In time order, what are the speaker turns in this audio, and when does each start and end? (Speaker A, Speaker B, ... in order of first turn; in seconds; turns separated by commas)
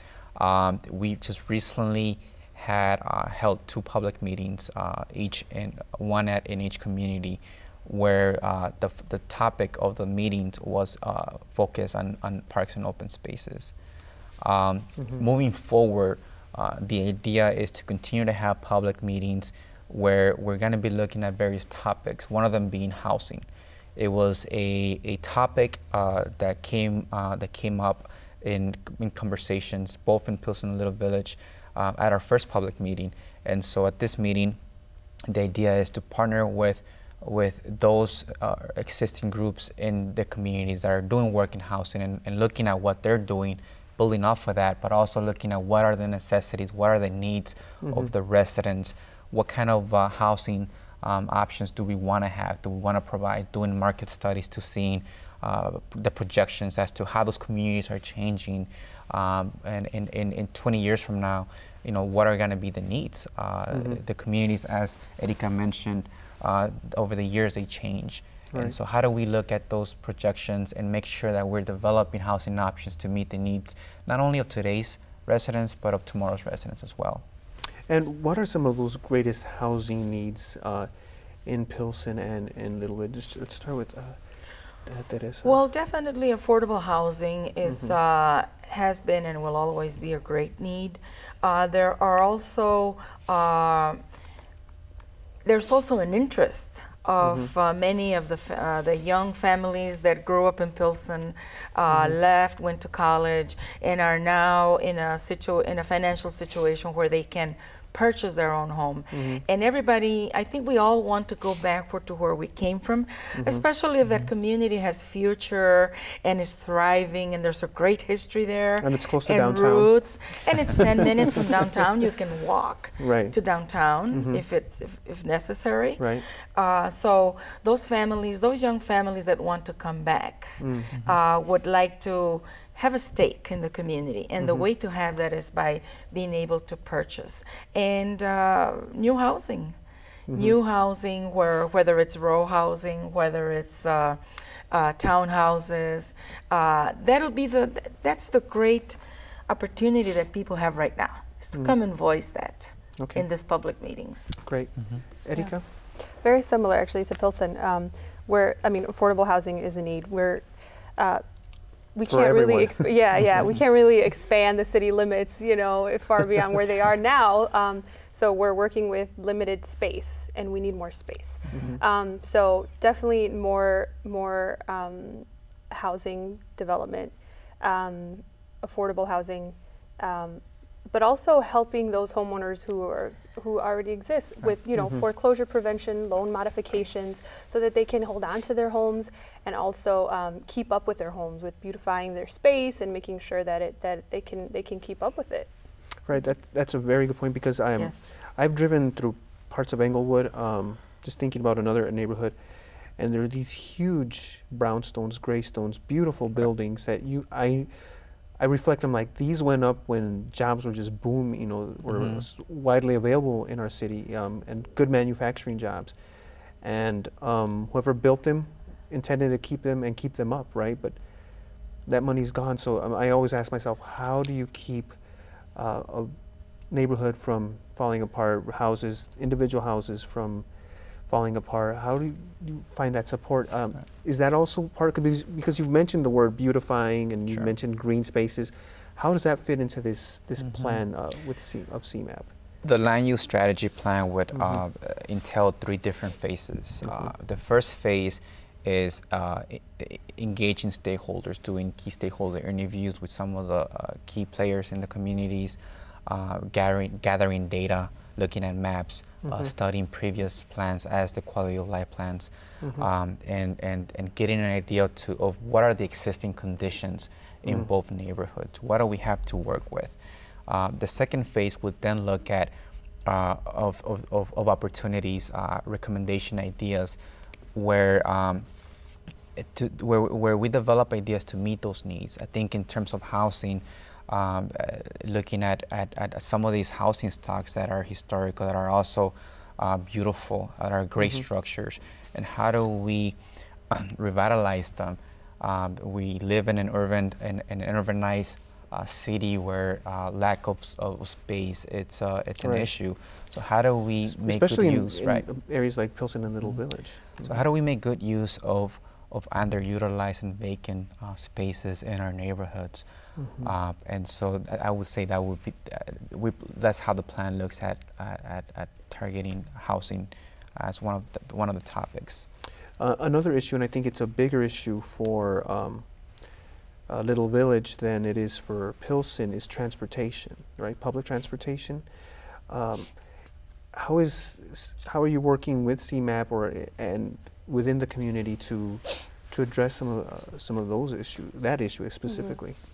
Speaker A: 0.3-13.7, Speaker A: 14.4-34.6, Speaker A: 35.3-77.2, Speaker B: 47.8-48.1, Speaker B: 63.7-64.0, Speaker B: 77.9-80.9, Speaker B: 81.4-84.2, Speaker B: 84.8-85.6, Speaker C: 85.4-94.0, Speaker B: 87.6-88.0, Speaker C: 95.4-139.8, Speaker B: 97.2-97.5, Speaker B: 101.9-102.2, Speaker B: 109.1-109.4, Speaker B: 113.3-113.6, Speaker B: 118.8-119.9, Speaker B: 120.5-121.4, Speaker B: 123.0-123.3, Speaker B: 124.1-124.4, Speaker B: 126.0-126.2, Speaker B: 130.6-130.9, Speaker B: 134.4-134.6, Speaker B: 140.3-140.6, Speaker C: 140.3-154.4, Speaker B: 153.0-153.2, Speaker B: 154.4-155.6, Speaker D: 156.2-160.4, Speaker D: 161.0-161.2, Speaker D: 161.9-195.5, Speaker B: 162.1-163.4, Speaker B: 171.5-171.8, Speaker B: 196.1-202.4, Speaker C: 197.8-198.1, Speaker B: 203.0-207.7, Speaker B: 208.4-215.9, Speaker A: 211.9-212.2, Speaker B: 216.6-221.0, Speaker B: 221.8-225.0, Speaker B: 225.5-226.1, Speaker B: 226.7-230.5, Speaker B: 231.1-242.3, Speaker A: 242.6-269.9, Speaker B: 244.3-244.6, Speaker B: 246.8-247.1, Speaker B: 259.2-259.5, Speaker B: 262.6-262.9, Speaker B: 267.4-267.7, Speaker A: 270.5-272.5, Speaker A: 273.0-277.0, Speaker A: 277.5-278.5, Speaker A: 279.4-293.2, Speaker A: 293.7-305.2, Speaker B: 302.4-302.7, Speaker B: 304.1-307.4, Speaker A: 307.2-312.8, Speaker B: 313.2-313.5, Speaker A: 313.4-322.3, Speaker B: 322.8-325.9, Speaker B: 326.9-331.8, Speaker B: 332.5-332.9, Speaker B: 333.7-342.6, Speaker D: 342.1-342.4